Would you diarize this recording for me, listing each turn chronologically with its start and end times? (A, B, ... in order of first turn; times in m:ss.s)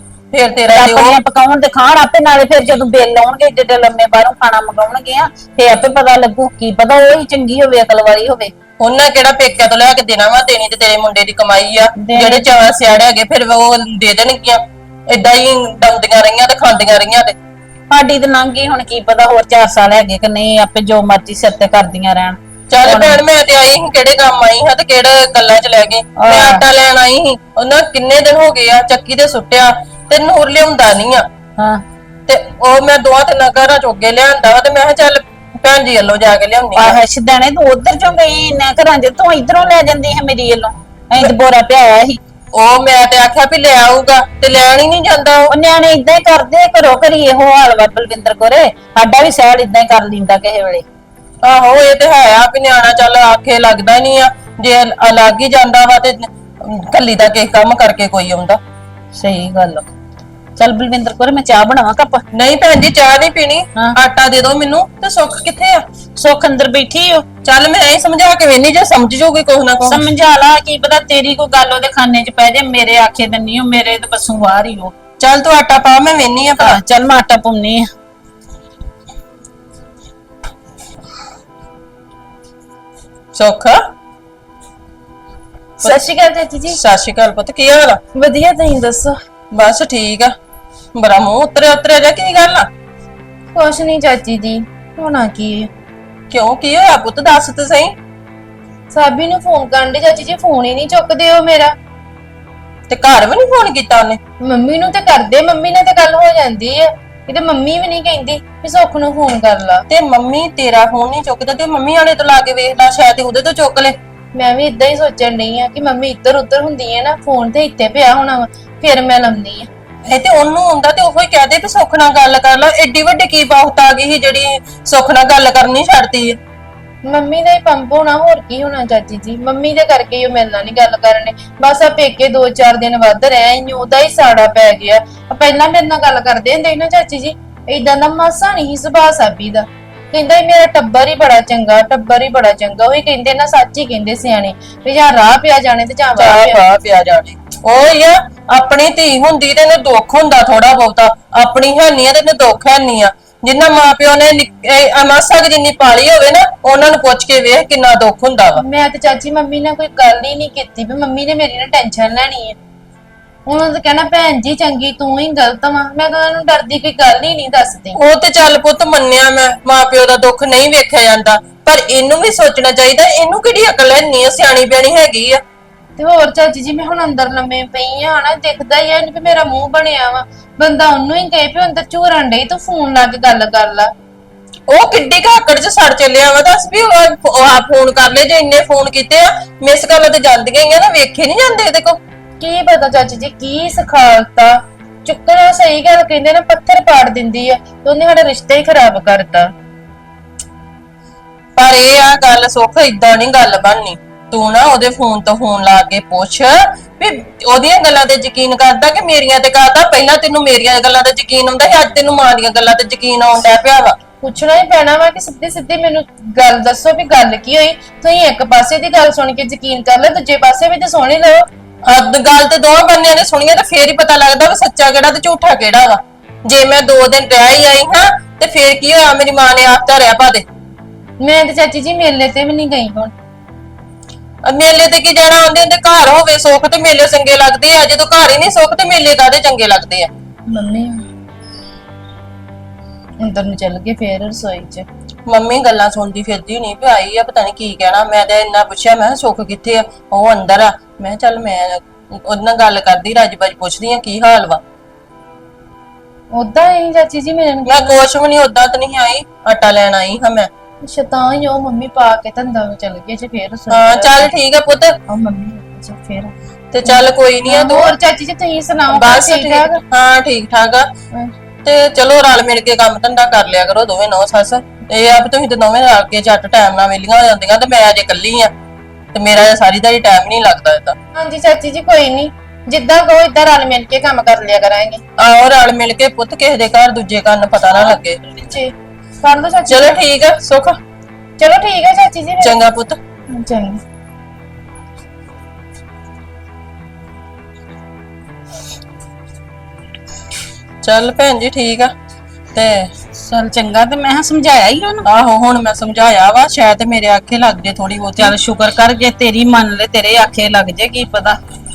0:00.3-0:01.2 A
0:00.7-0:08.5 B
0:08.8-0:17.4 A
0:12.0-0:12.5 B
0:17.9-0:23.2 B
0:22.7-0:31.2 A
0:26.2-0:26.6 B
0:31.6-0:31.8 B
0:32.3-0:37.0 A
0:36.8-0:42.2 B
0:42.5-0:45.5 A
0:45.5-0:50.8 B
0:51.4-0:58.6 A
0:59.2-0:59.8 B
1:00.6-1:02.2 B
1:02.3-1:05.8 A
1:06.2-1:07.2 B
1:07.4-1:10.0 A
1:09.9-1:14.9 B
1:15.2-1:16.8 A
1:16.6-1:17.9 B
1:23.3-1:23.8 A
1:25.8-1:26.8 C
1:26.7-1:28.0 A
1:28.1-1:29.2 C
1:29.5-1:30.3 A
1:30.9-1:32.7 A
1:33.5-1:35.7 C
1:36.3-1:37.9 A
1:38.9-1:41.7 C
1:42.9-1:44.2 A
1:44.4-1:49.9 C
1:49.9-1:53.9 A
1:54.4-1:59.7 C
2:00.1-2:06.4 A
2:07.0-2:26.6 C
2:26.2-2:38.6 A
2:38.6-2:42.6 C
2:43.5-2:48.0 C
2:48.0-2:55.4 A
2:56.0-3:03.9 C
3:04.7-3:12.0 A
3:12.4-3:19.5 C
3:21.6-3:34.0 A
3:34.2-3:41.5 C
3:41.9-3:50.4 A
3:51.2-3:53.1 C
3:54.4-4:00.1 A
4:00.5-4:01.0 C
4:03.2-4:04.9 C
4:05.3-4:14.6 A
4:16.3-4:17.9 C
4:17.6-4:20.5 A
4:20.8-4:24.3 C
4:23.7-4:24.9 A
4:25.1-4:26.4 C
4:26.7-4:27.9 A
4:26.9-4:29.8 C
4:28.9-4:30.9 A
4:31.6-4:38.5 A
4:39.1-4:40.9 A
4:41.1-4:45.0 C
4:45.2-4:48.2 A
4:47.8-4:49.9 C
4:49.7-4:50.8 A
4:51.4-4:52.6 C
4:52.4-4:53.0 A
4:53.3-4:53.8 C
5:00.8-5:01.9 A
5:02.5-5:02.9 A
5:03.2-5:05.0 B
5:05.0-5:08.4 A
5:08.2-5:11.4 B